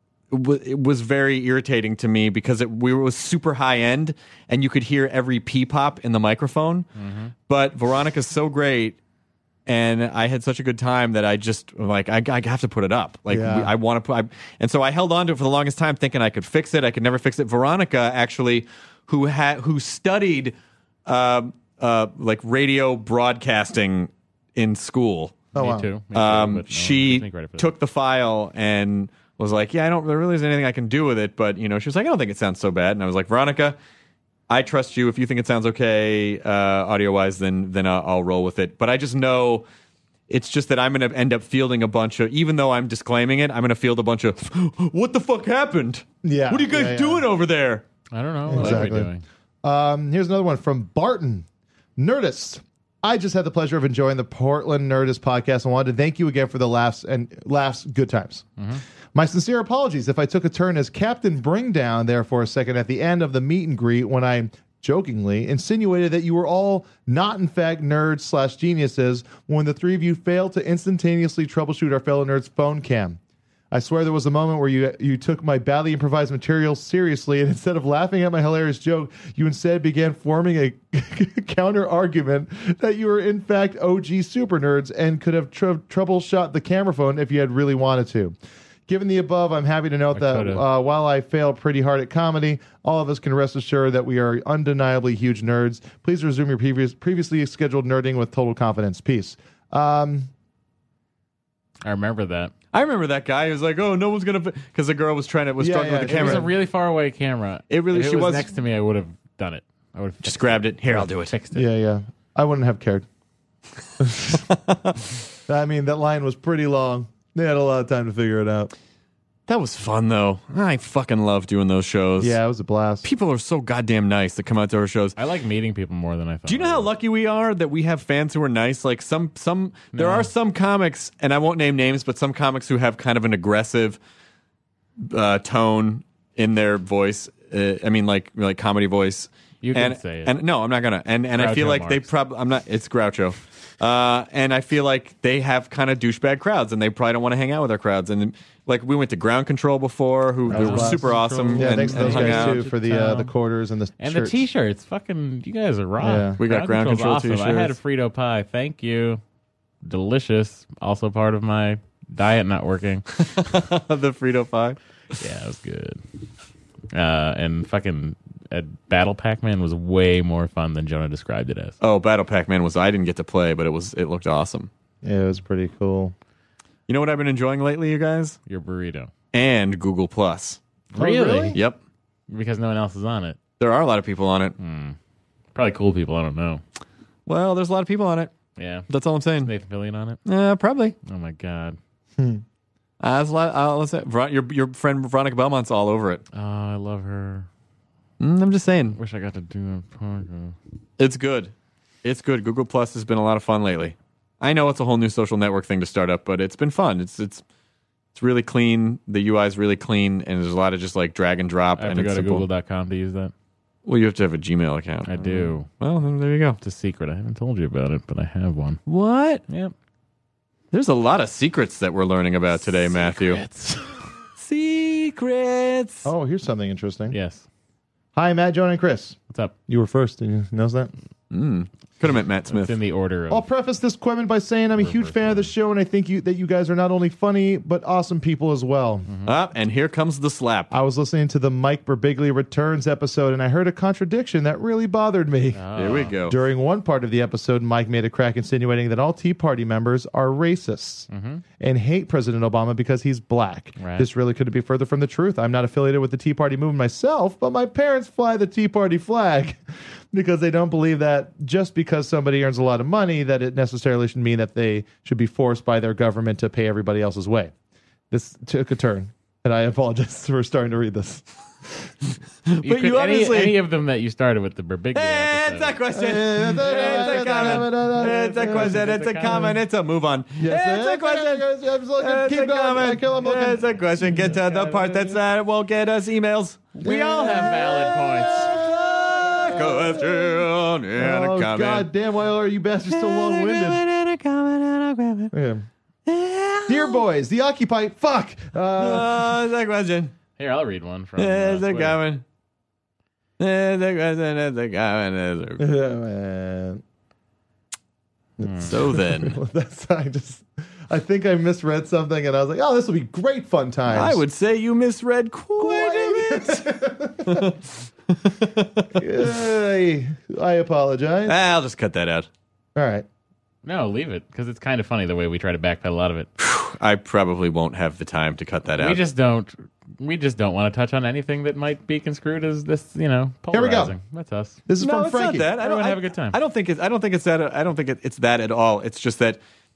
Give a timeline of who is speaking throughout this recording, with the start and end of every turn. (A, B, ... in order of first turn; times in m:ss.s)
0:00.3-0:06.9 A
0:07.0-0:07.3 B
0:07.5-0:09.0 A
0:09.7-0:20.5 A
0:13.3-0:13.7 C
0:21.0-0:25.5 A
0:25.5-0:25.9 C
0:25.5-0:27.7 B
0:26.1-0:33.8 A
0:34.5-0:39.6 A
0:40.3-0:47.8 A
0:46.2-0:47.3 C
0:48.1-0:49.2 B
0:48.5-0:49.1 C
0:48.5-0:48.9 A
0:49.6-0:51.4 C
0:52.0-0:58.4 C
0:59.1-1:13.2 C
1:13.7-1:28.3 C
1:28.9-1:40.3 C
1:30.1-1:30.6 B
1:41.8-1:42.5 B
1:42.7-1:46.5 A
1:45.6-1:46.5 C
1:46.0-1:51.6 B
1:47.7-1:48.5 A
1:50.2-1:51.3 A
1:51.5-1:53.0 C
1:54.0-1:54.4 C
1:54.5-1:54.9 A
1:55.5-1:58.7 C
1:59.5-2:02.4 A
2:02.2-2:03.1 C
2:03.0-2:05.2 A
2:05.2-2:06.9 B
2:06.5-2:14.0 A
2:09.9-2:10.3 B
2:15.0-2:32.6 A
2:19.6-2:20.3 B
2:21.4-2:22.1 B
2:30.5-2:33.3 B
2:30.5-2:34.4 C
2:34.0-2:39.2 B
2:36.0-2:36.4 C
2:36.4-2:37.7 A
2:39.8-2:43.1 B
2:43.2-2:44.8 A
2:45.2-2:46.0 B
2:46.9-2:51.8 B
2:51.8-2:54.7 A
2:55.0-2:56.1 C
2:56.9-2:58.4 A
2:58.5-2:59.1 B
2:59.3-3:00.6 A
3:00.9-3:01.6 B
3:01.0-3:01.6 C
3:02.3-3:03.4 B
3:03.6-3:04.5 A
3:04.6-3:05.0 B
3:05.5-3:06.6 B
3:07.3-3:08.3 A
3:08.6-3:08.9 B
3:08.9-3:09.5 A
3:09.4-3:10.2 B
3:10.2-3:11.0 A
3:11.0-3:11.8 B
3:12.2-3:12.4 C
3:13.0-3:16.2 A
3:16.3-3:17.5 B
3:18.2-3:19.0 A
3:19.0-3:20.6 B
3:21.0-3:21.5 A
3:22.0-3:27.4 A
3:28.1-3:32.4 A
3:31.8-3:33.3 B
3:33.8-3:36.6 A
3:35.0-3:35.7 B
3:36.6-3:38.8 B
3:38.8-3:39.4 A
3:39.5-3:39.7 B
3:40.7-3:43.4 A
3:42.9-3:44.1 B
3:44.4-3:46.1 A
3:46.0-3:47.2 C
3:47.1-3:47.4 B
3:48.1-3:50.9 C
3:51.3-3:52.8 A
3:52.5-3:53.4 B
3:53.3-3:59.1 C
3:54.8-3:55.5 B
3:59.0-3:59.3 B
3:59.2-4:00.7 A
4:00.7-4:05.6 C
4:05.5-4:06.1 B
4:05.8-4:06.4 A
4:06.1-4:11.1 C
4:11.1-4:11.4 B
4:11.6-4:27.5 C
4:13.8-4:14.1 B
4:28.1-4:31.3 C
4:32.5-4:33.6 A
4:32.6-4:35.8 B
4:34.9-4:51.9 A
4:35.9-4:39.5 C
4:36.5-4:39.5 B
4:40.4-4:44.4 C
4:44.0-4:45.2 B
4:46.8-4:48.5 B
4:46.8-4:47.7 C
4:48.3-4:53.8 C
4:52.9-4:55.3 A
4:55.3-4:55.7 C
4:56.0-4:57.0 A
4:56.7-4:59.3 C
4:58.8-5:00.1 A
5:00.4-5:02.0 B
5:01.2-5:02.2 A
5:03.4-5:05.7 A
5:05.6-5:06.8 C
5:08.4-5:14.2 C
5:08.4-5:08.7 B
5:08.6-5:09.4 A
5:13.9-5:16.7 A
5:15.6-5:17.5 C
5:17.2-5:19.0 A
5:18.9-5:21.4 C
5:21.2-5:22.3 A
5:22.8-5:23.0 C
5:23.6-5:26.3 B
5:26.4-5:29.0 A
5:28.8-5:34.6 B
5:33.5-5:33.9 C
5:34.7-5:35.5 C
5:34.8-5:39.4 A
5:35.6-5:36.4 B